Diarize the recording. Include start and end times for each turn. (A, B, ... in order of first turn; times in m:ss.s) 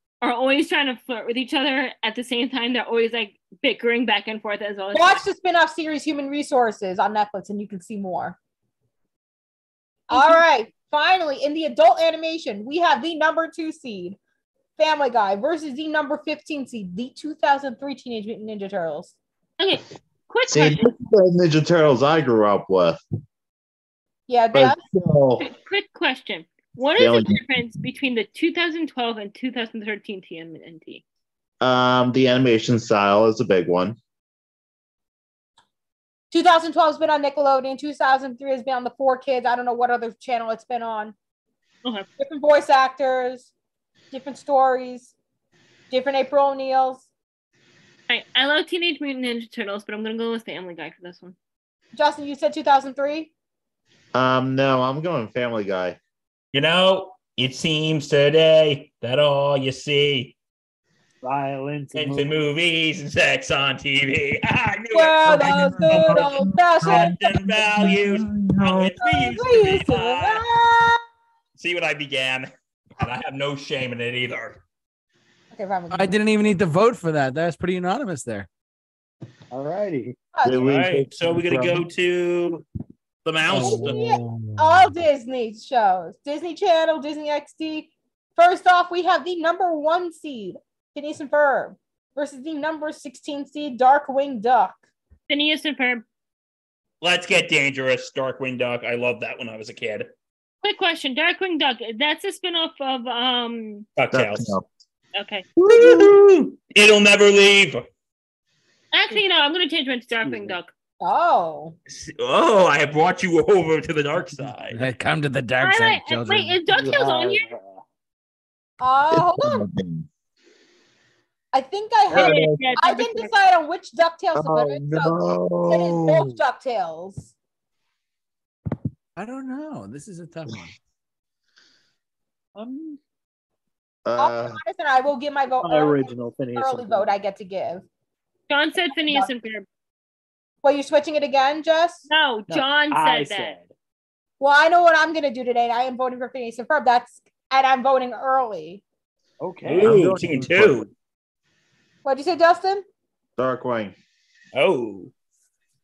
0:00.2-0:05.2 A
0:04.9-0:08.4 B
0:10.1-0:14.2 B
0:10.1-0:10.4 A
0:14.8-0:19.2 B
0:19.6-0:20.9 A
0:20.5-0:23.0 C
0:24.3-0:24.8 B
0:24.5-0:25.5 C
0:25.4-0:31.0 A
0:27.0-0:27.4 C
0:31.6-0:34.0 C
0:36.3-0:41.2 B
0:42.2-0:43.5 B
0:44.1-0:45.1 B
0:45.9-0:47.1 B
0:48.1-0:51.4 A
0:51.9-0:53.3 B
0:54.1-0:56.0 C
0:56.5-1:00.4 D
1:01.2-1:02.4 E
1:01.9-1:10.4 D
1:04.9-1:07.1 B
1:05.3-1:08.9 C
1:09.0-1:11.0 B
1:11.6-1:14.6 D
1:15.5-1:16.2 B
1:15.9-1:18.5 F
1:19.5-1:20.2 E
1:20.4-1:20.6 B
1:20.4-1:21.8 C
1:20.6-1:22.6 D
1:23.2-1:24.0 D
1:23.5-1:25.0 F
1:23.5-1:34.8 B
1:35.3-1:36.1 A
1:37.0-1:40.1 D
1:40.6-1:43.9 A
1:44.0-1:44.6 D
1:44.1-1:44.6 C
1:45.2-1:45.5 A
1:45.6-1:47.8 D
1:45.7-1:46.0 B
1:48.9-1:50.7 A
1:50.2-1:50.6 E
1:51.0-1:51.8 B
1:51.9-1:54.9 D
1:54.7-1:56.6 F
1:55.6-1:57.5 A
1:56.7-1:57.8 E
1:58.8-1:59.7 B
1:59.1-2:00.1 C
2:01.5-2:05.2 B
2:02.1-2:03.3 A
2:02.1-2:02.7 C
2:04.4-2:06.4 C
2:05.7-2:07.3 B
2:09.2-2:10.7 F
2:12.6-2:13.0 E
2:14.0-2:14.6 C
2:14.2-2:17.8 B
2:15.6-2:17.2 E
2:18.5-2:19.7 A
2:18.9-2:19.3 B
2:20.6-2:22.1 B
2:22.1-2:23.6 A
2:22.5-2:23.7 E
2:24.4-2:28.8 B
2:29.4-2:30.0 E
2:29.7-2:30.9 D
2:29.8-2:30.9 C
2:32.0-2:32.8 B
2:33.4-2:34.0 C
2:34.5-2:35.1 D